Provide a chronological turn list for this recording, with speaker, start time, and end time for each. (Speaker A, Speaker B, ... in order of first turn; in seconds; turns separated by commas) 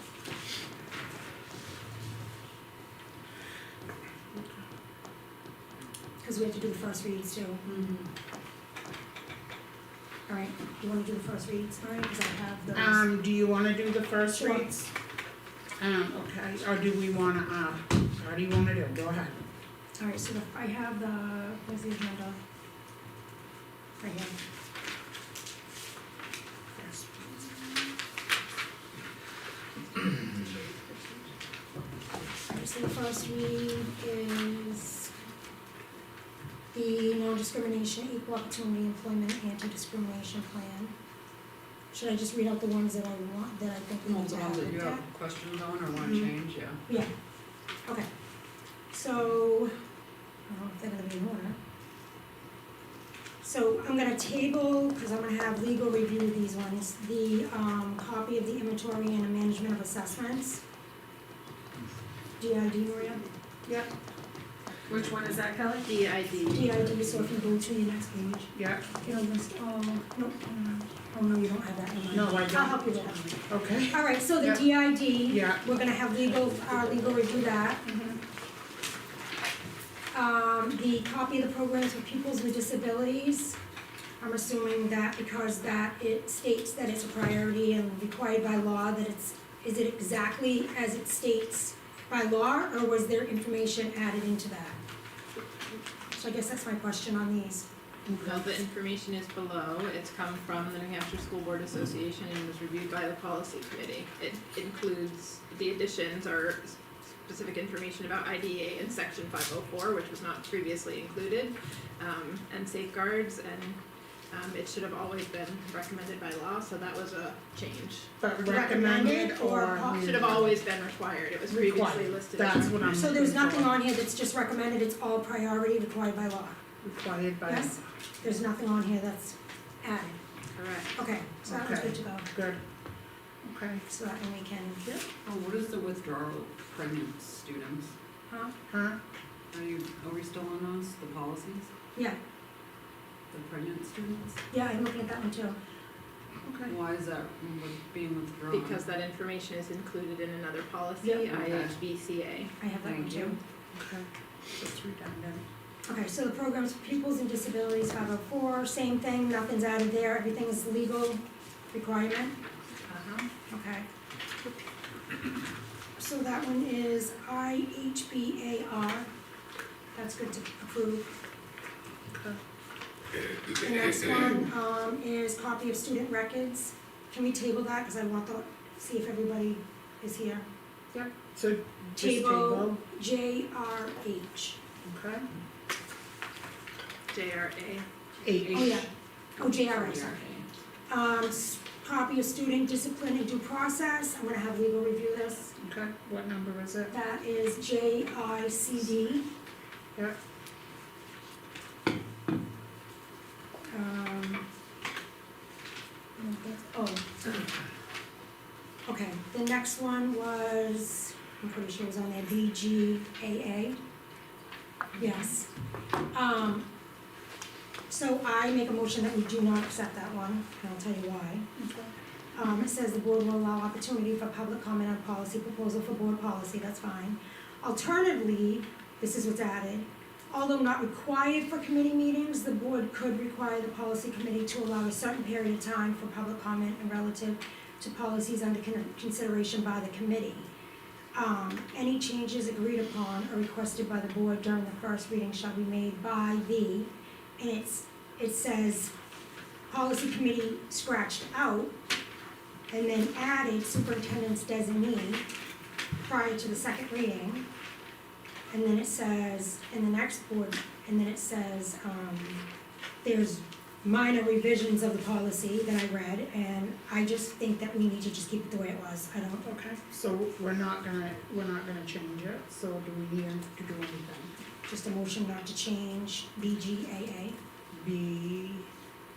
Speaker A: 6.2-7.7, Speaker A: 10.3-13.1, Speaker B: 12.8-14.9, Speaker A: 14.3-14.7, Speaker B: 15.8-19.5, Speaker A: 20.0-22.4, Speaker A: 24.0-24.4, Speaker B: 26.8-27.4, Speaker A: 32.5-35.1, Speaker A: 36.7-40.9, Speaker A: 41.9-45.0, Speaker C: 44.0-46.8, Speaker A: 48.9-49.7, Speaker A: 50.5-51.6, Speaker A: 53.4-60.6, Speaker A: 62.4-63.3, Speaker D: 64.9-67.0, Speaker A: 66.5-77.8, Speaker B: 68.5-69.3, Speaker B: 72.1-72.9, Speaker B: 73.5-74.6, Speaker B: 75.3-75.7, Speaker B: 77.9-78.2, Speaker A: 80.1-83.6, Speaker A: 84.2-94.8, Speaker A: 96.2-97.7, Speaker B: 98.1-98.5, Speaker D: 98.2-113.8, Speaker D: 114.3-118.1, Speaker B: 118.2-120.6, Speaker A: 118.4-120.3, Speaker D: 119.9-122.8, Speaker B: 121.5-123.8, Speaker A: 122.9-126.6, Speaker B: 126.8-127.8, Speaker A: 127.5-130.2, Speaker D: 130.6-130.9, Speaker A: 130.9-132.3, Speaker B: 131.5-132.6, Speaker B: 133.4-133.8, Speaker A: 133.9-135.0, Speaker C: 135.2-137.9, Speaker A: 138.3-138.6, Speaker B: 138.7-139.0, Speaker C: 139.5-141.7, Speaker C: 143.3-144.4, Speaker A: 144.5-145.6, Speaker B: 146.4-146.7, Speaker C: 146.7-148.8, Speaker D: 148.5-152.5, Speaker C: 151.3-151.8, Speaker A: 152.6-153.4, Speaker C: 152.8-153.4, Speaker B: 153.7-155.4, Speaker A: 155.9-161.2, Speaker A: 161.7-162.4, Speaker A: 163.5-163.9, Speaker A: 166.0-169.1, Speaker A: 169.9-171.1, Speaker B: 172.1-172.4, Speaker A: 173.6-180.5, Speaker B: 180.9-182.8, Speaker A: 182.0-184.6, Speaker B: 184.8-185.3, Speaker D: 187.1-187.9, Speaker B: 188.2-188.8, Speaker C: 188.3-188.8, Speaker A: 188.5-190.2, Speaker C: 189.4-190.5, Speaker A: 190.9-195.6, Speaker B: 195.6-196.9, Speaker A: 196.9-199.3, Speaker A: 203.7-204.5, Speaker A: 206.2-207.5, Speaker A: 208.9-213.8, Speaker A: 215.0-215.5, Speaker A: 216.1-216.7, Speaker A: 217.9-221.5, Speaker B: 221.6-221.9, Speaker A: 222.3-240.5, Speaker A: 241.2-248.9, Speaker A: 249.7-251.8, Speaker A: 252.7-255.3, Speaker A: 256.0-257.4, Speaker A: 258.5-262.5, Speaker A: 263.0-269.5, Speaker B: 269.4-274.3, Speaker A: 274.7-277.4, Speaker B: 277.7-278.7